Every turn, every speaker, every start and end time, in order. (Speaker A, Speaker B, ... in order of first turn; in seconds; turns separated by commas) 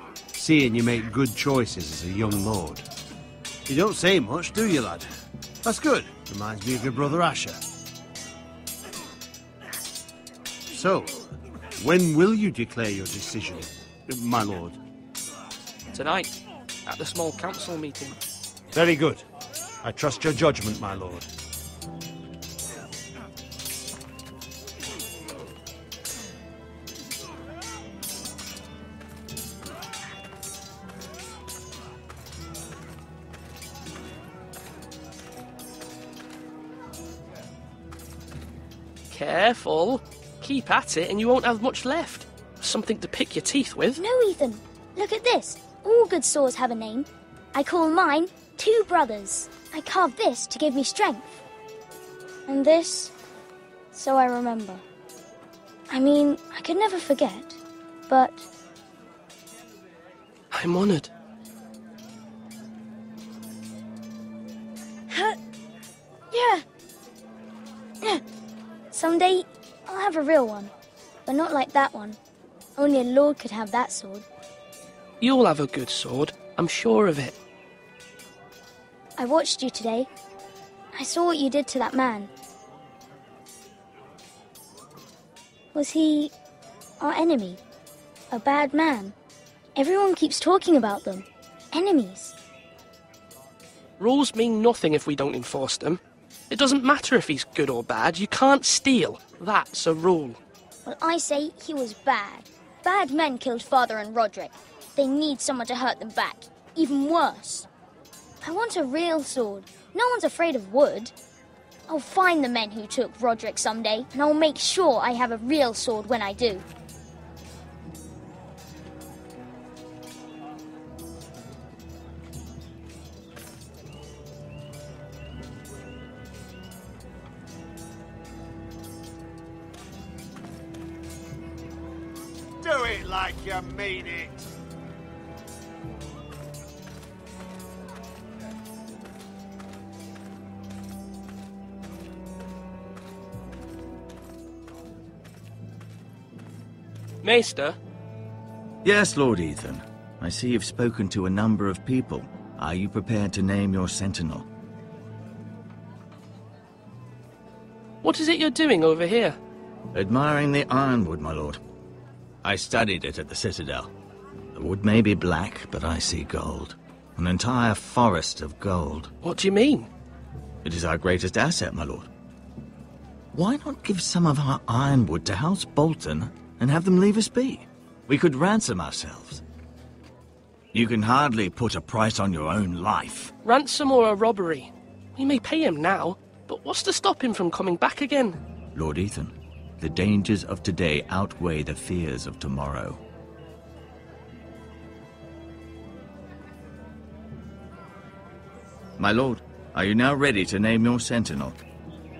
Speaker A: 0.3-2.8, Speaker A: 3.7-5.1, Speaker A: 5.6-7.6, Speaker A: 10.7-11.2, Speaker A: 11.8-14.8, Speaker B: 15.9-18.1, Speaker A: 18.7-19.2, Speaker A: 19.8-21.3, Speaker B: 39.1-44.0, Speaker C: 44.0-51.4, Speaker C: 52.5-53.1, Speaker C: 53.9-54.8, Speaker C: 55.9-58.5, Speaker B: 60.5-61.1, Speaker C: 65.1-65.4, Speaker C: 66.3-66.6, Speaker C: 68.9-70.7, Speaker C: 71.2-72.2, Speaker C: 72.8-74.2, Speaker B: 75.2-77.3, Speaker C: 79.2-80.1, Speaker C: 80.9-82.3, Speaker C: 85.7-86.3, Speaker C: 87.0-87.6, Speaker C: 88.3-89.1, Speaker C: 89.8-92.3, Speaker B: 94.0-100.4, Speaker C: 100.8-107.7, Speaker C: 108.4-111.1, Speaker C: 111.9-116.6, Speaker A: 132.6-134.5, Speaker B: 147.2-147.8, Speaker D: 148.8-154.4, Speaker B: 158.0-159.4, Speaker D: 159.9-161.6, Speaker D: 162.4-163.9, Speaker D: 164.5-169.1, Speaker B: 169.2-169.9, Speaker D: 170.6-172.1, Speaker D: 173.3-179.4, Speaker D: 180.7-183.3, Speaker B: 183.4-188.4, Speaker D: 188.7-193.0, Speaker D: 199.0-201.6